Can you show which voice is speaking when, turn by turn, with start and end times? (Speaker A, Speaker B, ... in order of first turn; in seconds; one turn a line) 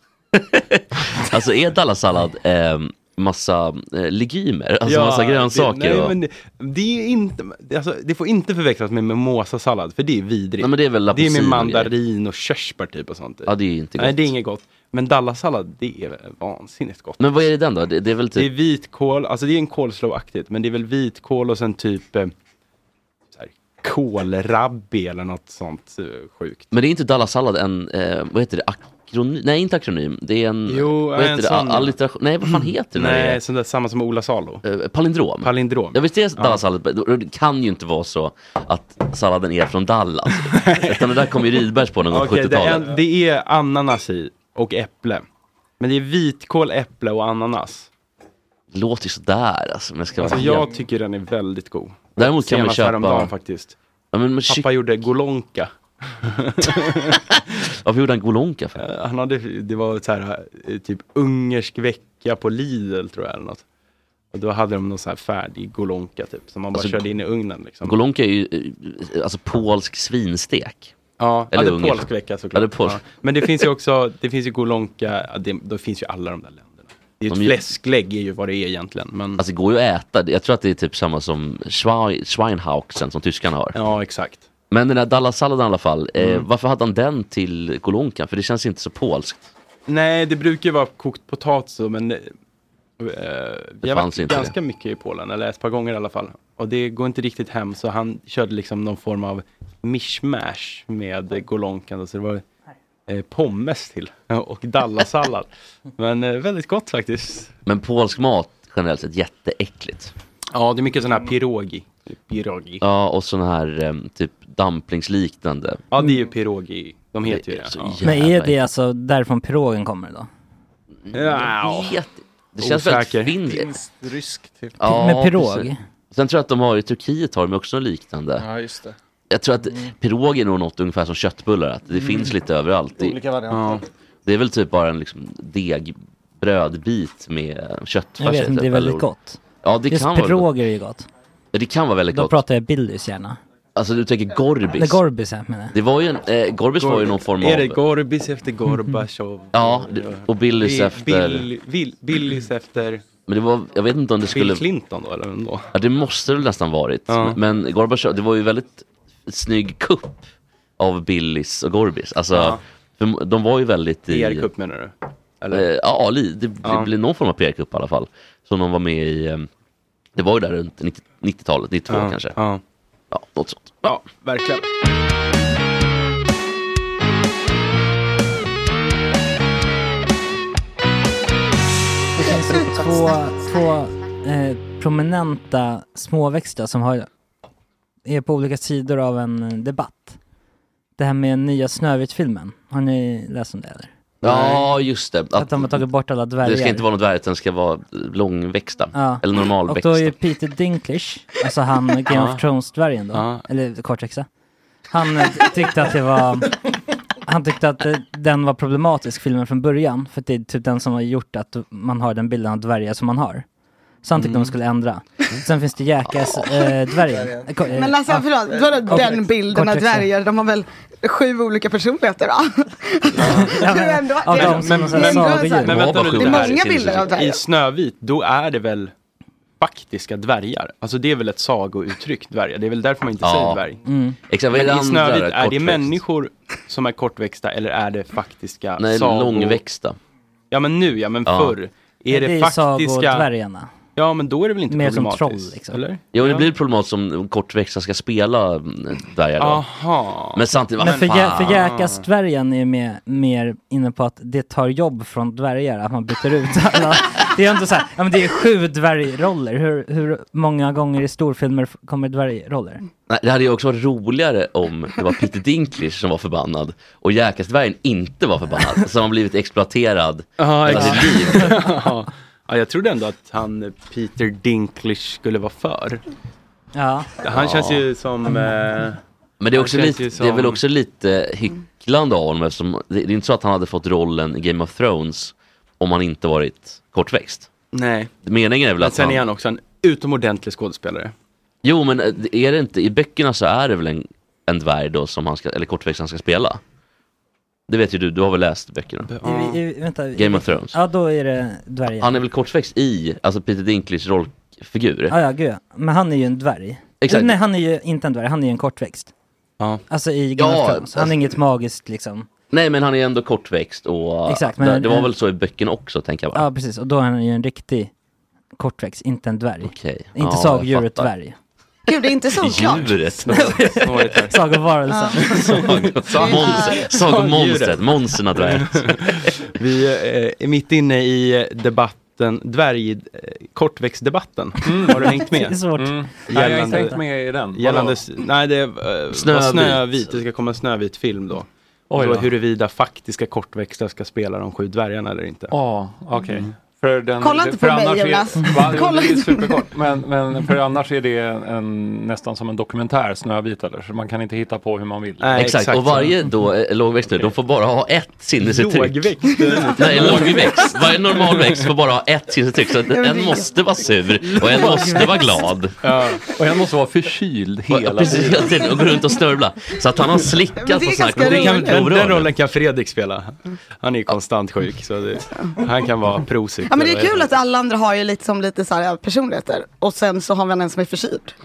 Speaker A: 0.3-6.2
Speaker B: 4.8-17.2
Speaker A: 10.6-11.9
Speaker A: 13.4-14.3
Speaker A: 17.2-18.5
Speaker B: 18.4-22.3
Speaker B: 23.3-26.7
Speaker A: 26.7-33.4
Speaker B: 30.7-31.9
Speaker B: 32.5-34.6
Speaker A: 34.6-42.9
Speaker B: 35.4-36.6
Speaker B: 40.5-41.3
Speaker B: 42.1-45.2
Speaker B: 45.8-47.9
Speaker A: 48.7-50.7
Speaker B: 50.2-53.8
Speaker A: 52.2-53.3
Speaker A: 54.1-54.7
Speaker B: 54.5-57.2
Speaker A: 57.1-58.8
Speaker B: 58.8-63.6
Speaker B: 64.3-68.0
Speaker A: 66.7-67.0
Speaker A: 67.8-70.9
Speaker B: 71.2-79.4
Speaker A: 71.5-73.0
Speaker A: 77.3-77.5
Speaker A: 79.4-83.8
Speaker B: 83.7-84.4
Speaker A: 84.7-89.5
Speaker B: 86.2-86.5
Speaker B: 89.9-92.3
Speaker B: 93.0-102.4
Speaker A: 93.8-94.5
Speaker B: 103.1-107.5
Speaker A: 107.7-110.1
Speaker B: 110.5-112.8
Speaker A: 112.8-115.8
Speaker B: 115.9-118.0
Speaker A: 117.2-118.6
Speaker C: 118.0-120.3
Speaker A: 121.1-123.7
Speaker B: 121.1-122.0
Speaker B: 122.6-123.3
Speaker D: 123.4-124.8
Speaker A: 124.8-128.5
Speaker C: 124.8-125.8
Speaker D: 128.4-128.9
Speaker A: 129.3-133.2
Speaker D: 132.0-132.3
Speaker D: 133.0-133.9
Speaker B: 133.5-133.8
Speaker A: 134.2-139.1
Speaker C: 138.2-141.1
Speaker A: 139.6-140.5
Speaker A: 141.5-142.4
Speaker C: 142.1-143.4
Speaker A: 143.7-145.0
Speaker C: 144.7-145.8
Speaker A: 145.7-147.8
Speaker B: 146.8-153.0
Speaker A: 149.5-151.5
Speaker A: 153.3-154.6
Speaker B: 154.3-155.7
Speaker A: 155.7-160.2
Speaker B: 157.1-157.4
Speaker A: 160.8-164.5
Speaker B: 162.3-162.6
Speaker B: 164.1-165.6
Speaker A: 165.5-169.5
Speaker B: 166.6-166.9
Speaker A: 170.2-172.4
Speaker B: 171.9-172.6
Speaker A: 173.1-173.9
Speaker B: 173.8-174.6
Speaker C: 182.2-187.1
Speaker C: 188.1-190.2
Speaker C: 191.0-193.9
Speaker A: 194.2-195.8
Speaker B: 194.2-194.6
Speaker C: 195.4-196.8
Speaker A: 196.4-200.1
Speaker C: 198.9-204.3
Speaker B: 202.1-202.4
Speaker B: 203.1-203.4
Speaker C: 204.9-206.6
Speaker C: 207.2-213.4
Speaker C: 214.0-220.1
Speaker B: 214.2-214.5
Speaker D: 217.0-217.8
Speaker E: 217.7-227.4
Speaker D: 218.5-219.1
Speaker B: 223.2-223.6
Speaker C: 223.2-225.8
Speaker B: 224.3-228.9
Speaker A: 225.7-227.1
Speaker B: 229.6-233.8
Speaker A: 233.2-233.6
Speaker C: 233.8-234.2
Speaker A: 234.3-236.0
Speaker B: 234.5-239.6
Speaker A: 238.8-240.0
Speaker B: 240.5-243.3
Speaker A: 241.2-241.6
Speaker C: 242.1-243.7
Speaker B: 243.9-246.5
Speaker C: 244.7-245.8
Speaker A: 246.1-249.6
Speaker B: 249.4-252.0
Speaker A: 250.3-251.7
Speaker C: 250.8-262.8
Speaker A: 263.1-271.6
Speaker B: 270.4-276.0
Speaker C: 270.7-271.4
Speaker C: 276.7-277.1
Speaker B: 277.2-279.0
Speaker A: 277.3-277.8
Speaker A: 279.4-287.5
Speaker B: 279.5-280.6
Speaker B: 287.7-288.1
Speaker A: 288.2-289.2
Speaker B: 288.8-291.1
Speaker A: 291.6-296.6
Speaker A: 297.7-299.1
Speaker B: 299.1-299.6
Speaker C: 299.2-302.1
Speaker A: 300.1-300.8
Speaker A: 302.0-305.1
Speaker C: 305.1-309.1
Speaker A: 307.0-307.4
Speaker C: 309.9-312.3
Speaker A: 310.4-311.2
Speaker A: 312.5-316.4
Speaker C: 314.3-315.1
Speaker C: 316.3-317.9
Speaker C: 318.6-321.4
Speaker A: 319.6-321.1
Speaker E: 321.9-323.2
Speaker A: 322.4-323.8
Speaker B: 323.3-324.4
Speaker C: 323.3-325.6
Speaker E: 324.9-325.6
Speaker A: 325.5-329.3
Speaker B: 325.6-335.6
Speaker E: 326.1-326.8
Speaker F: 334.6-335.2
Speaker C: 335.0-336.1
Speaker F: 335.7-338.0
Speaker B: 336.3-337.0
Speaker C: 336.6-336.9
Speaker B: 337.5-345.5
Speaker A: 339.1-340.2
Speaker F: 341.9-342.3
Speaker F: 345.5-355.4
Speaker E: 347.2-349.7
Speaker B: 355.2-356.1
Speaker A: 355.3-365.8
Speaker B: 358.4-361.7
Speaker E: 362.9-363.5
Speaker B: 365.8-366.2
Speaker F: 366.3-368.6
Speaker A: 367.7-372.3
Speaker E: 370.6-371.8
Speaker B: 371.1-377.3
Speaker E: 376.7-381.3